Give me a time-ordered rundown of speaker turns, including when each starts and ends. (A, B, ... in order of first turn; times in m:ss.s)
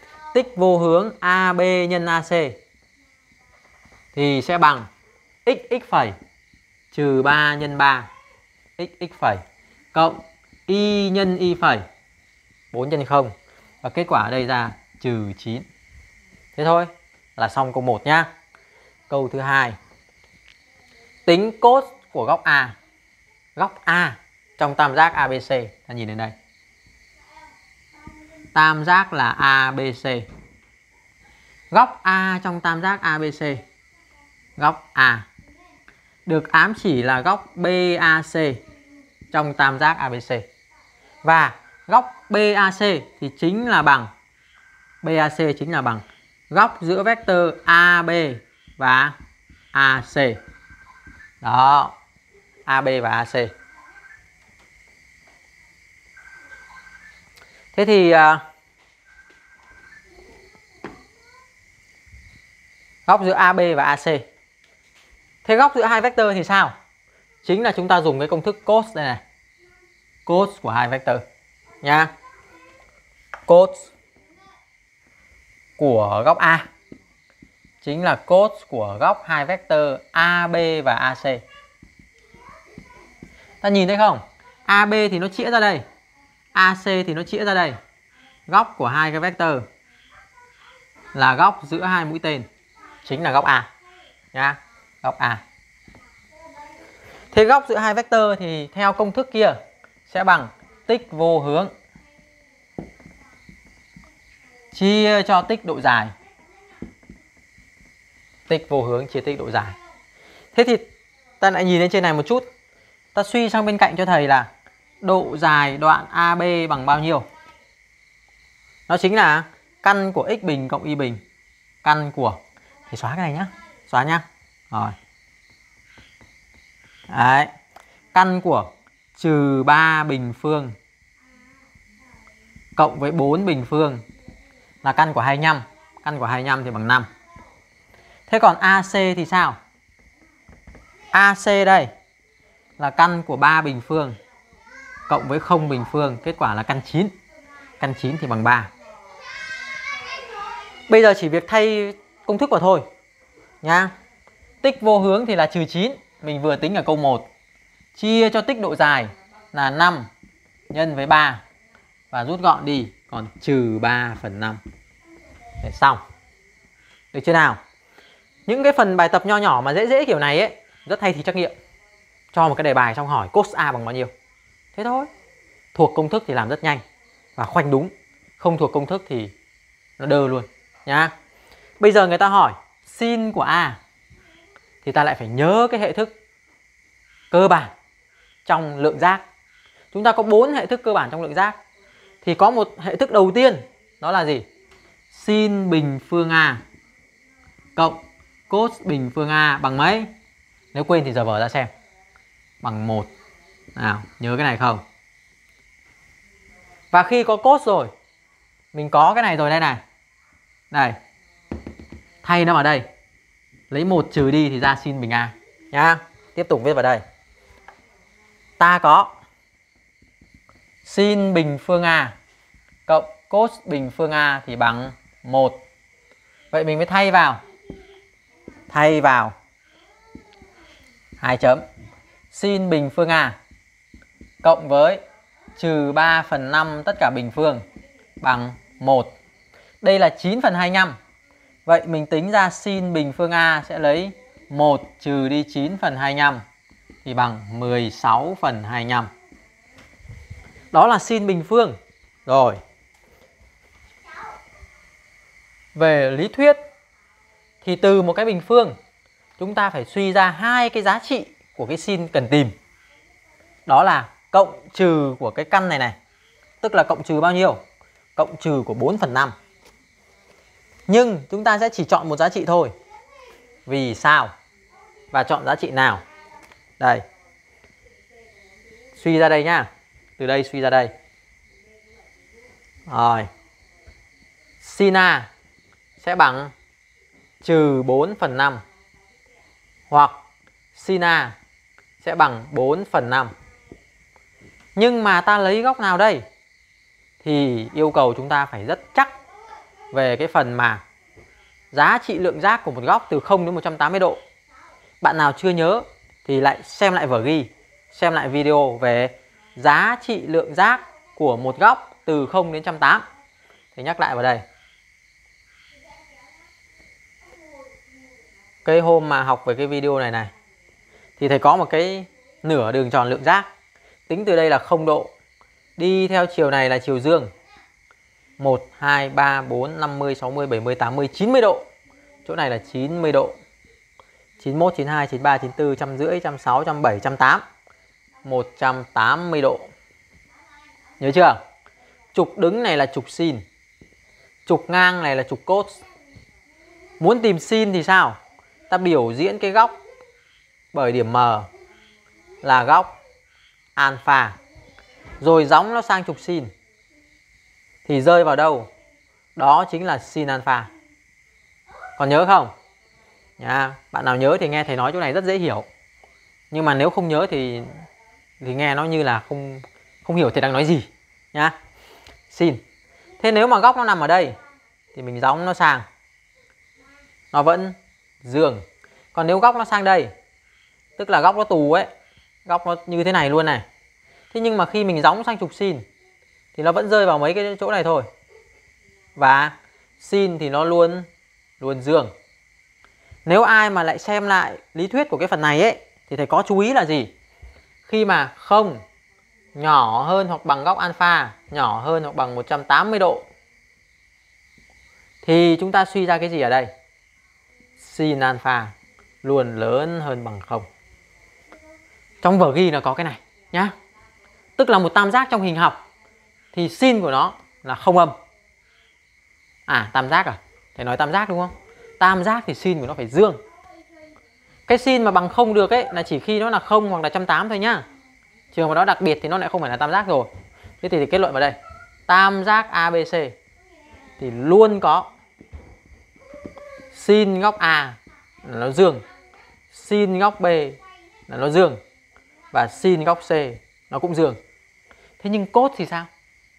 0:00.3-0:02.6 A
0:04.1-0:04.9 A
0:05.4-0:06.2 A
0:06.9-0:08.1 A
0:08.8-0:09.4 A
0:09.9-0:11.8 A
0:12.7-0:15.6 A
0:16.6-0:18.3 A
0:19.1-0:19.8 A
0:21.2-0:22.8 A
0:23.6-0:26.3 A
0:28.5-0:30.3 A
0:31.7-0:33.6 A
0:34.6-0:35.3 A
0:36.2-0:38.6 A
0:39.3-0:40.4 A
0:41.2-0:44.1 A
0:45.0-0:49.2 A
0:49.7-0:50.4 A
0:51.4-0:51.9 A
0:52.6-0:53.5 A
0:57.7-0:58.4 A
1:03.0-1:04.2 A
1:05.4-1:06.7 A
1:07.4-1:09.2 A
1:10.2-1:11.2 A
1:11.8-1:12.1 A
1:13.5-1:13.9 A
1:15.8-1:16.7 A
1:17.8-1:21.4 A
1:23.6-1:25.8 A
1:26.5-1:27.8 A
1:28.5-1:29.6 A
1:31.1-1:32.5 A
1:33.0-1:33.7 A
1:34.3-1:35.4 A
1:37.3-1:41.7 A
1:44.7-1:46.1 A
1:48.5-1:49.8 A
1:50.5-1:50.9 A
1:51.4-1:52.5 A
1:53.1-1:54.5 A
1:55.0-1:57.3 A
1:58.9-2:01.2 A
2:01.8-2:05.0 A
2:07.1-2:07.5 A
2:08.1-2:10.8 A
2:12.8-2:14.0 A
2:14.8-2:17.1 A
2:18.3-2:19.6 A
2:21.1-2:21.9 A
2:22.8-2:24.2 A
2:25.1-2:27.1 A
2:27.8-2:28.7 A
2:30.9-2:32.8 A
2:33.6-2:33.9 A
2:34.6-2:37.3 A
2:38.0-2:40.1 A
2:40.7-2:41.4 A
2:42.1-2:44.6 A
2:45.6-2:46.0 A
2:47.1-2:47.6 A
2:48.4-2:51.5 A
2:52.3-2:54.1 A
2:54.7-2:55.1 A
2:55.7-2:56.8 A
2:57.4-2:59.3 A
3:00.0-3:01.1 A
3:01.8-3:03.8 A
3:04.8-3:06.1 A
3:07.3-3:07.7 A
3:08.4-3:09.2 A
3:09.9-3:11.6 A
3:12.2-3:14.4 A
3:15.1-3:16.6 A
3:17.8-3:20.1 A
3:20.7-3:21.7 A
3:22.6-3:23.1 A
3:23.8-3:24.8 A
3:26.9-3:27.9 A
3:28.7-3:29.8 A
3:30.7-3:31.0 A
3:32.2-3:32.8 A
3:33.7-3:37.0 A
3:38.6-3:39.2 A
3:40.8-3:42.2 A
3:42.9-3:45.6 A
3:46.5-3:47.4 A
3:48.7-3:49.3 A
3:51.2-3:51.6 A
3:52.3-3:53.4 A
3:54.4-3:55.0 A
3:55.6-3:57.6 A
3:58.2-3:59.1 A
3:59.8-4:01.0 A
4:01.6-4:06.4 A
4:07.0-4:09.1 A
4:10.7-4:12.6 A
4:15.7-4:16.6 A
4:17.6-4:18.8 A
4:19.4-4:22.5 A
4:23.7-4:26.0 A
4:26.6-4:27.6 A
4:28.2-4:29.3 A
4:30.9-4:32.7 A
4:33.6-4:34.3 A
4:35.1-4:36.0 A
4:36.8-4:37.0 A
4:38.9-4:40.9 A
4:42.9-4:43.3 A
4:44.6-4:45.3 A
4:46.0-4:46.5 A
4:47.4-4:48.6 A
4:49.9-4:50.2 A
4:50.7-4:51.4 A
4:52.0-4:53.3 A
4:54.8-4:56.2 A
4:57.2-4:59.1 A
4:59.9-5:00.8 A
5:01.7-5:04.2 A
5:05.0-5:13.0 A
5:13.7-5:14.4 A
5:18.6-5:20.3 A
5:21.2-5:23.5 A
5:24.1-5:25.1 A
5:25.8-5:27.3 A
5:28.4-5:31.6 A
5:32.2-5:33.4 A
5:34.4-5:37.4 A
5:38.2-5:39.7 A
5:41.0-5:41.4 A
5:42.1-5:43.4 A
5:44.4-5:45.8 A
5:47.0-5:48.2 A
5:48.7-5:49.8 A
5:50.7-5:51.5 A
5:52.4-5:53.0 A
5:53.8-5:54.4 A
5:55.2-5:56.5 A
5:57.8-5:58.7 A
5:59.4-6:00.7 A
6:02.0-6:02.5 A
6:03.4-6:05.7 A
6:06.5-6:07.8 A
6:08.4-6:11.6 A
6:12.3-6:12.6 A
6:13.2-6:14.4 A
6:14.9-6:15.8 A
6:17.3-6:18.6 A
6:19.1-6:20.1 A
6:21.0-6:21.9 A
6:22.4-6:23.6 A
6:24.3-6:25.8 A
6:26.5-6:28.1 A
6:29.2-6:31.1 A
6:31.6-6:32.1 A
6:33.2-6:37.1 A
6:37.8-6:38.8 A
6:39.5-6:43.3 A
6:45.2-6:46.7 A
6:47.8-6:50.7 A
6:52.2-6:53.7 A
6:54.6-6:55.8 A
6:56.5-6:58.2 A
6:59.7-7:03.4 A
7:04.7-7:07.8 A
7:08.5-7:10.3 A
7:10.8-7:13.4 A
7:14.2-7:15.1 A
7:16.9-7:19.0 A
7:19.7-7:21.8 A
7:22.5-7:24.4 A
7:25.2-7:26.1 A